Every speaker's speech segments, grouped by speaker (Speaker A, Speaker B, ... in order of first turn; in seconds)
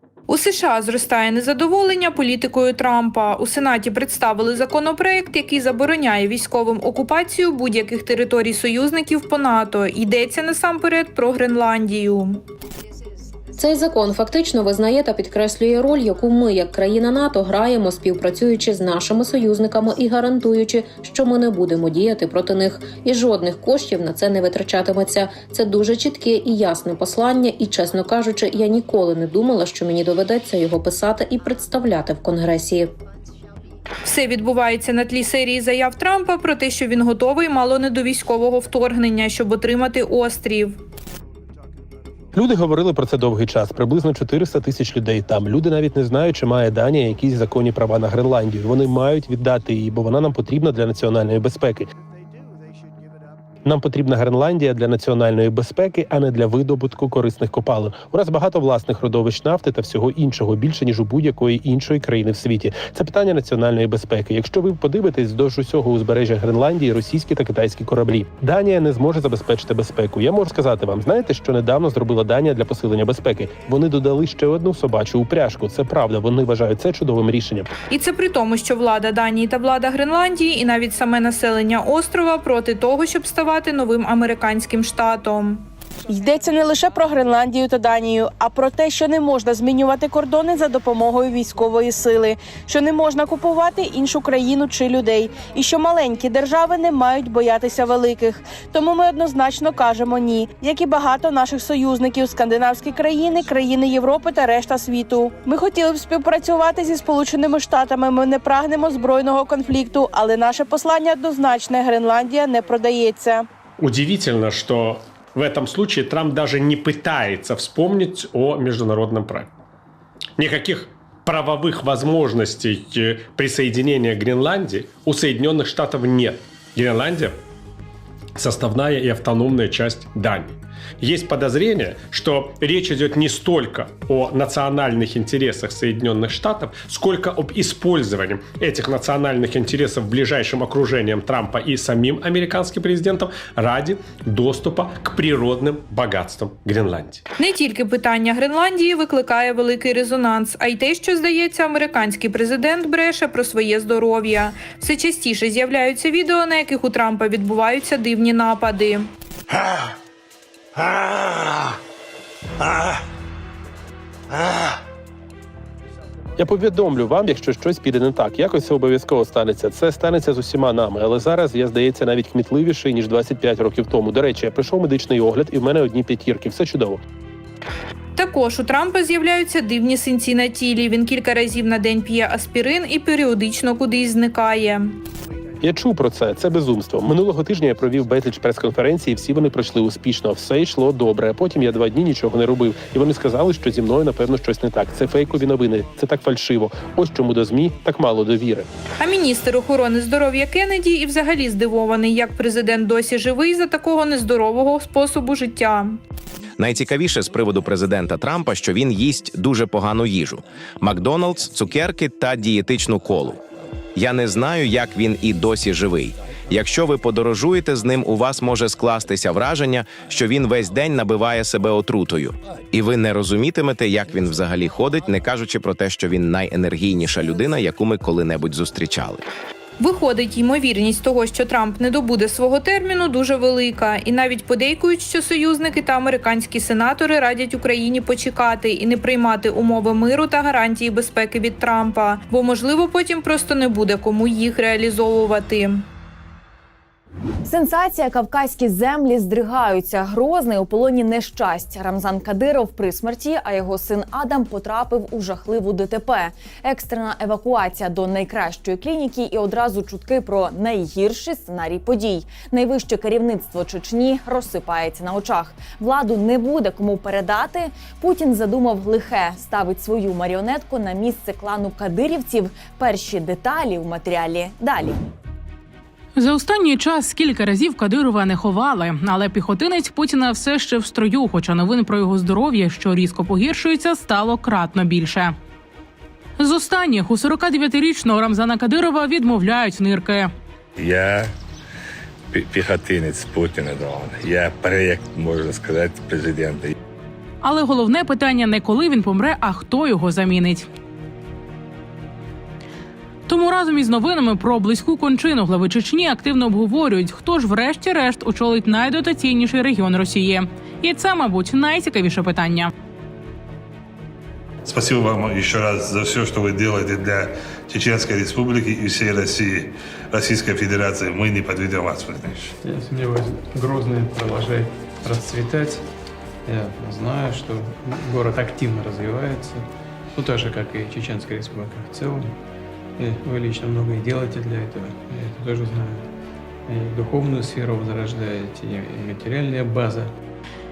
Speaker A: 0.3-12.4, 34.0-40.8, 77.9-85.6, 147.4-159.1, 178.1-185.0, 199.0-206.0, 229.8-245.8
Speaker B: 13.6-32.9
Speaker C: 42.3-51.9, 53.6-77.7, 166.4-177.0, 185.6-198.7
Speaker D: 86.1-113.5
Speaker E: 113.8-119.5, 120.4-127.4, 128.3-147.2
Speaker F: 206.6-213.4, 213.9-229.2
Speaker G: 247.4-275.0
Speaker H: 276.1-285.3, 286.4-290.3, 297.4-300.7, 303.3-312.7
Speaker I: 290.8-291.3, 292.3-296.7
Speaker J: 314.6-322.5
Speaker K: 322.6-325.9, 326.4-332.4, 333.0-336.1, 336.7-340.1